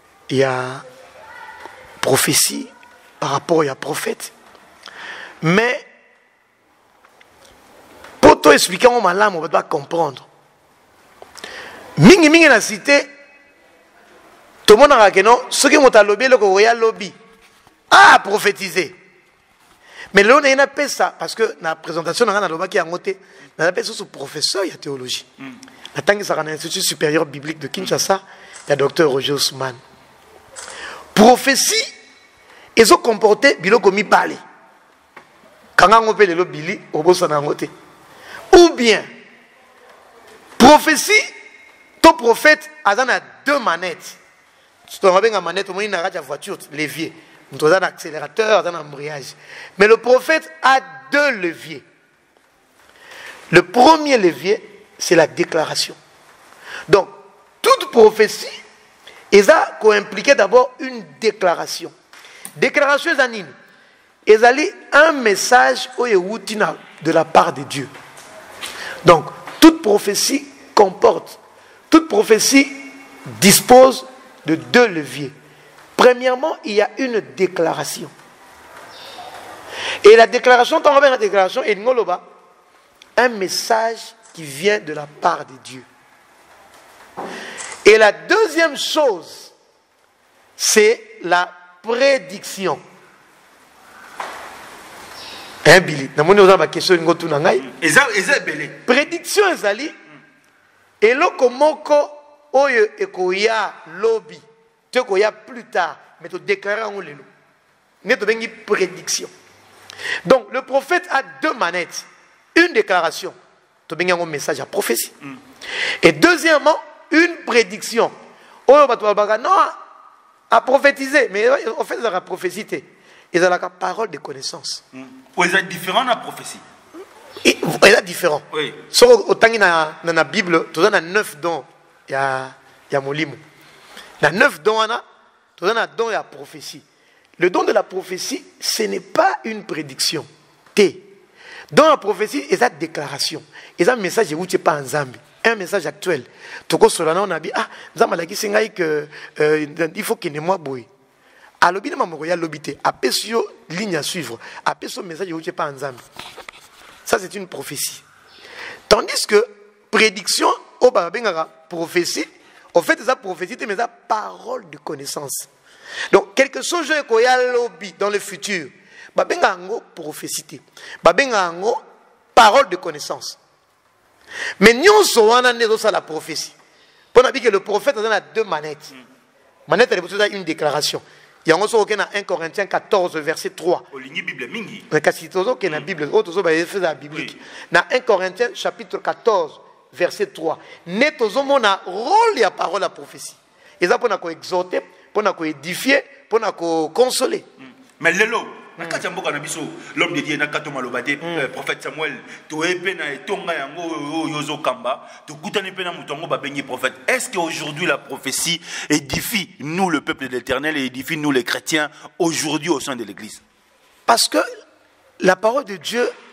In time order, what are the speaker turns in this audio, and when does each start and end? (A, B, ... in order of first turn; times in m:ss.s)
0:00.3-0:00.8 A
0:02.0-0:04.3 A
0:05.4-0:05.8 A
0:08.2-0:10.3 A
0:12.0-0:13.1 A
0:14.7-0:17.2 A
0:17.9-0:19.0 A
0:20.1-0:25.3 A
0:25.9-0:29.8 A
0:31.2-0:31.9 A
0:32.8-0:34.4 A
0:35.8-0:37.7 A
0:38.5-0:39.1 A
0:40.6-0:41.3 A
0:42.0-0:44.2 A
0:44.9-0:51.8 A
0:53.5-0:56.0 A
0:56.9-0:58.6 A
0:59.3-1:01.9 A
1:02.6-1:03.5 A
1:04.3-1:07.9 A
1:09.0-1:11.4 A
1:11.9-1:15.3 A
1:16.0-1:18.1 A
1:20.0-1:22.2 A
1:23.2-1:25.9 A
1:27.8-1:29.5 A
1:30.6-1:32.8 A
1:35.6-1:37.7 A
1:37.6-1:38.8 B
1:38.9-1:39.9 A
1:41.0-1:47.3 A
1:48.0-1:49.3 A
1:50.2-1:53.4 A
1:53.9-1:55.1 A
1:56.0-1:58.1 A
1:58.7-1:59.8 A
2:00.5-2:04.8 A
2:04.9-2:06.6 B
2:07.4-2:13.4 A
2:08.5-2:08.8 B
2:14.2-2:15.0 A
2:15.6-2:16.8 A
2:17.4-2:21.1 A
2:21.7-2:30.9 A
2:31.6-2:36.0 A
2:37.1-2:38.0 A
2:38.9-2:45.5 A
2:46.1-2:51.8 A
2:52.4-2:53.4 A
2:54.6-2:56.6 A
2:57.1-2:58.9 A
2:59.7-3:03.8 A
3:03.9-3:04.9 B
3:04.9-3:17.5 A
3:18.0-3:33.4 B
3:21.2-3:21.5 A
3:34.1-3:34.4 A
3:35.2-3:36.1 A